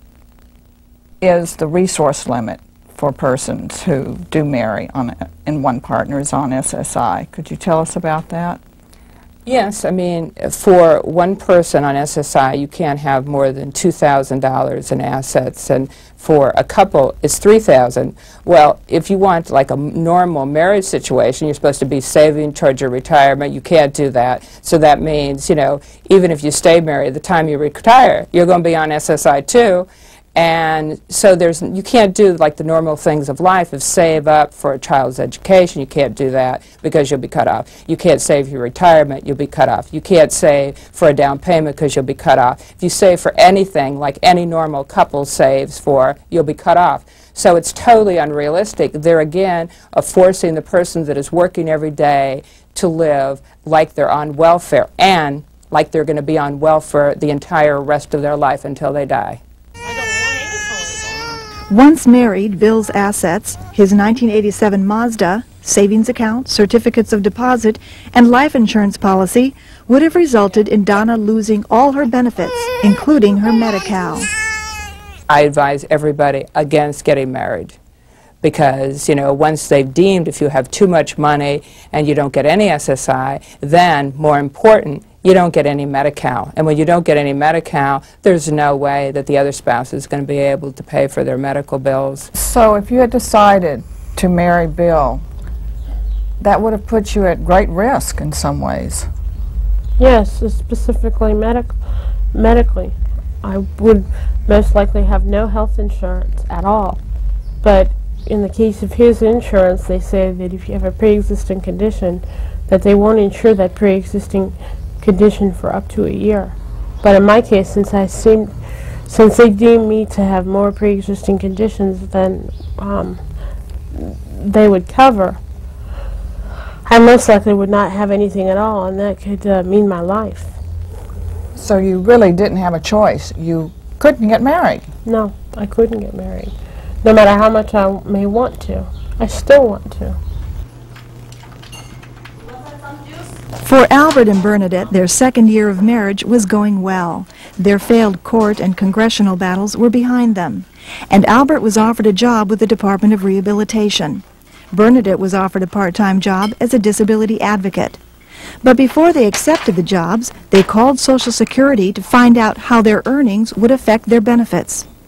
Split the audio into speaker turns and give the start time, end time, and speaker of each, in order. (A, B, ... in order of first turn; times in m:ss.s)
0:01.2-0:08.6 A
0:09.5-0:59.4 B
0:59.9-1:01.1 C
1:01.7-1:14.3 D
1:15.3-1:17.8 B
1:18.4-1:32.3 B
1:32.3-1:35.2 A
1:36.4-1:39.1 A
1:40.0-1:41.8 C
1:42.3-1:47.0 C
1:47.6-2:03.2 C
2:03.9-2:05.4 C
2:06.9-2:10.6 C
2:11.6-2:14.9 A
2:15.0-2:20.2 C
2:23.6-2:38.0 D
2:38.6-2:44.9 D